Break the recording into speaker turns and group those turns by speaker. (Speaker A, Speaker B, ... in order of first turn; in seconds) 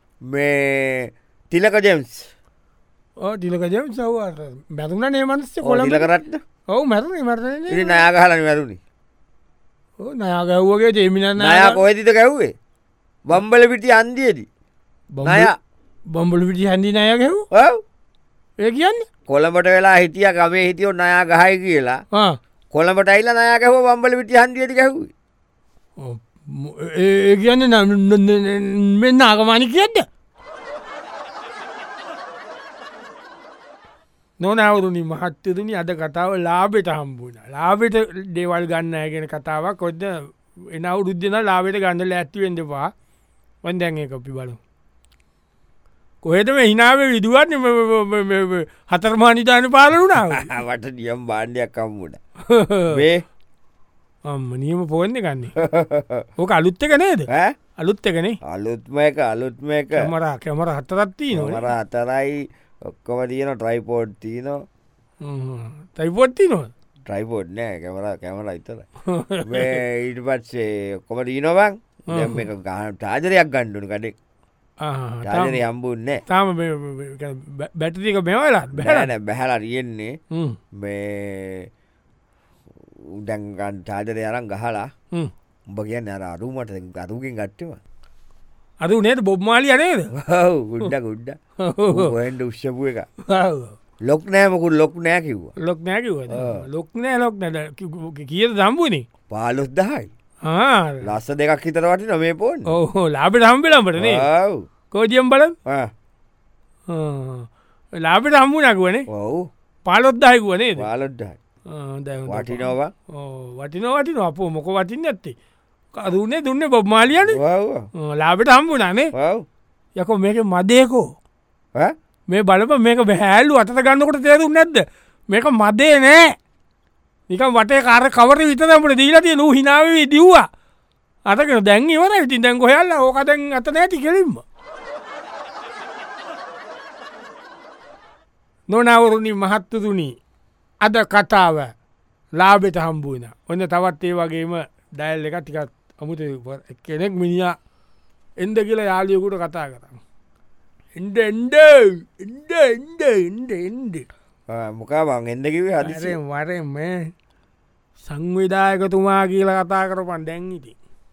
Speaker A: 0.3-2.3, 5.6-6.4, 7.7-8.8, 11.4-12.5, 13.3-14.5, 15.2-15.5, 17.5-17.8, 19.3-22.0, 22.7-25.1, 50.1-52.2, 52.9-53.2, 55.6-56.2, 57.3-57.5, 58.4-60.1, 61.3-64.6, 67.1-68.8, 69.4-74.1, 75.2-76.2, 78.8-80.1, 80.8-81.7, 83.1-84.9, 85.7-87.8, 90.2-91.4, 91.9-93.1, 94.0-95.5, 96.3-96.6, 99.3-100.1, 101.0-102.7, 104.0-104.6, 105.7-105.9, 109.1-109.5, 110.8-111.4, 112.3-112.9, 117.3-117.9, 119.2-119.4, 154.5-156.2
Speaker B: 3.2-6.1, 6.7-8.0, 10.0-11.8, 15.1-15.5, 16.1-17.5, 18.6-19.1, 26.0-30.1, 34.4-42.9, 43.6-44.6, 46.2-50.5, 52.5-53.0, 54.3-55.6, 56.4-58.4, 59.9-61.7, 65.2-66.7, 69.0-69.8, 72.1-72.5, 74.8-75.6, 76.3-79.1, 80.3-80.6, 88.8-90.1, 91.6-92.1, 93.3-93.8, 95.6-99.0, 100.4-101.0, 102.7-104.2, 104.9-105.5, 106.9-107.5, 108.0-109.0, 109.9-110.9, 111.7-115.3, 116.0-117.4, 117.9-119.1, 120.0-121.1, 122.3-126.3, 127.3-130.5, 131.3-134.4, 138.7-140.2, 140.8-141.7, 142.4-147.6, 148.4-150.0, 151.0-154.1, 155.8-157.1, 158.1-160.8